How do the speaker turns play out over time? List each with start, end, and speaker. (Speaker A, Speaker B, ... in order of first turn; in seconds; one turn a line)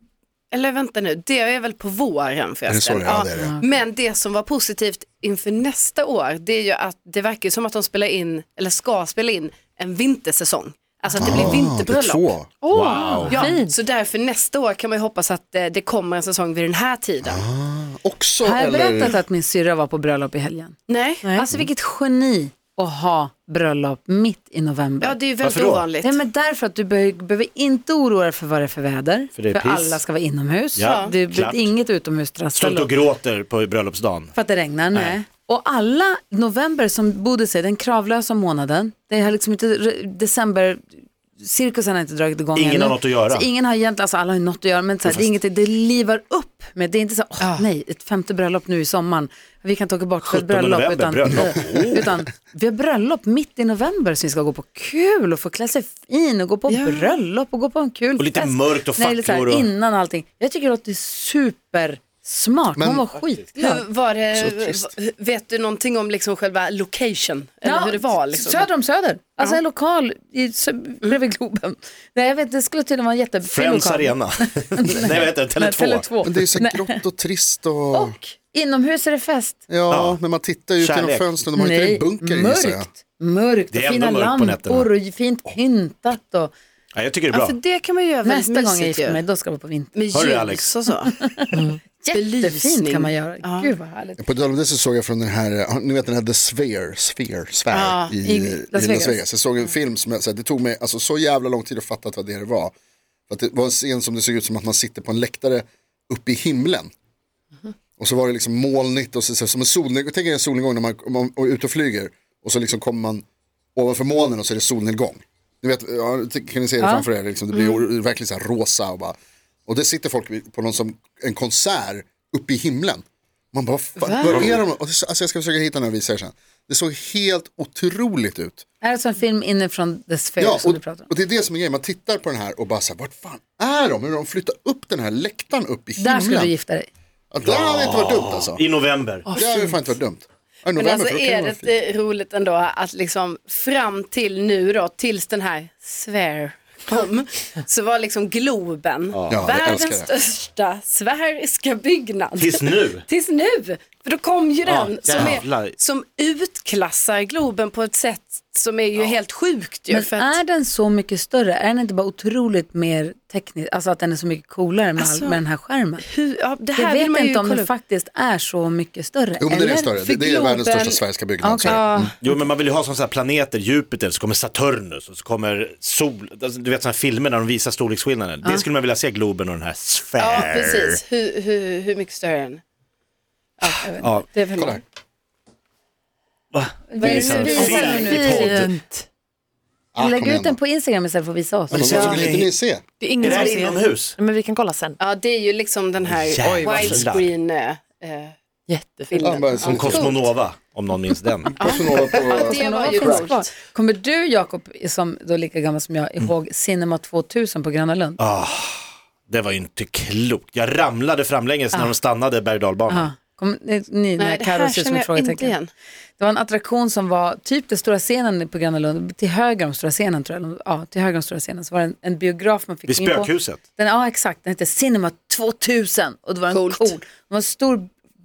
Speaker A: 0.5-12.3
Speaker B: 2.7-3.5
Speaker C: 3.3-3.6
Speaker B: 11.2-12.5
Speaker D: 12.6-13.7
Speaker E: 12.7-13.3
Speaker A: 13.3-17.4
Speaker B: 17.2-19.2
Speaker C: 18.4-20.8
Speaker A: 20.9-21.3
Speaker C: 21.3-25.2
Speaker A: 25.0-26.2
Speaker E: 25.4-25.9
Speaker C: 26.0-32.9
Speaker E: 29.3-30.0
Speaker E: 30.7-31.7
Speaker A: 30.8-31.1
Speaker E: 32.5-34.3
Speaker C: 34.3-40.9
Speaker E: 34.9-35.2
Speaker C: 41.4-63.8
Speaker E: 42.5-43.5
Speaker E: 45.0-45.3
Speaker A: 47.4-47.6
Speaker E: 50.2-52.1
Speaker A: 56.7-57.1
Speaker E: 58.2-59.7
Speaker B: 62.8-63.0
Speaker A: 63.5-68.7
Speaker B: 64.3-64.8
Speaker C: 67.6-77.0
Speaker E: 73.4-76.1
Speaker B: 76.2-78.2
Speaker C: 77.9-79.6
Speaker B: 79.7-82.9
Speaker E: 79.9-80.2
Speaker E: 80.8-81.3
Speaker C: 81.5-86.5
Speaker E: 83.7-84.9
Speaker E: 86.9-87.5
Speaker A: 87.3-89.2
Speaker C: 88.2-89.9
Speaker A: 89.9-91.1
Speaker E: 90.1-90.7
Speaker C: 91.0-94.2
Speaker A: 92.1-93.7
Speaker B: 94.2-102.7
Speaker A: 97.7-98.1
Speaker C: 98.2-99.2
Speaker B: 103.3-106.9
Speaker B: 108.0-113.2
Speaker B: 113.7-119.2
Speaker C: 116.8-117.1
Speaker A: 117.5-117.8
Speaker B: 119.7-128.6
Speaker C: 124.0-124.5
Speaker E: 124.3-124.6
Speaker C: 128.8-131.1
Speaker B: 130.4-136.5
Speaker C: 136.0-136.9
Speaker B: 137.3-138.6
Speaker E: 137.4-139.4
Speaker D: 139.3-139.8
Speaker B: 139.3-141.7
Speaker A: 140.8-160.4
Speaker E: 149.1-149.5
Speaker B: 149.3-150.1
Speaker E: 152.4-153.0
Speaker E: 154.6-155.7
Speaker C: 159.9-166.0
Speaker A: 164.9-165.4
Speaker A: 166.0-167.7
Speaker C: 166.7-170.0
Speaker B: 169.4-172.1
Speaker A: 170.1-171.0
Speaker C: 171.4-172.1
Speaker A: 171.6-172.1
Speaker E: 172.2-181.0
Speaker A: 180.2-182.6
Speaker C: 183.6-184.7
Speaker A: 183.6-184.8
Speaker E: 184.0-184.2
Speaker E: 186.5-188.7
Speaker C: 186.9-188.6
Speaker A: 187.0-188.3
Speaker D: 187.4-189.1
Speaker B: 189.9-190.6
Speaker C: 190.0-192.2
Speaker E: 191.7-192.5
Speaker B: 191.7-192.8
Speaker D: 193.0-195.0
Speaker E: 193.2-194.2
Speaker A: 193.2-193.5
Speaker A: 195.0-198.3
Speaker E: 196.0-197.3
Speaker D: 196.4-197.1
Speaker D: 198.7-199.2
Speaker A: 199.1-200.3
Speaker B: 199.2-200.2
Speaker E: 199.6-201.6
Speaker B: 201.6-203.2
Speaker A: 201.6-203.5
Speaker C: 201.9-208.2
Speaker E: 208.2-213.1
Speaker C: 212.9-215.6
Speaker A: 214.2-215.7
Speaker C: 216.2-227.9
Speaker E: 222.9-223.6
Speaker A: 226.5-226.9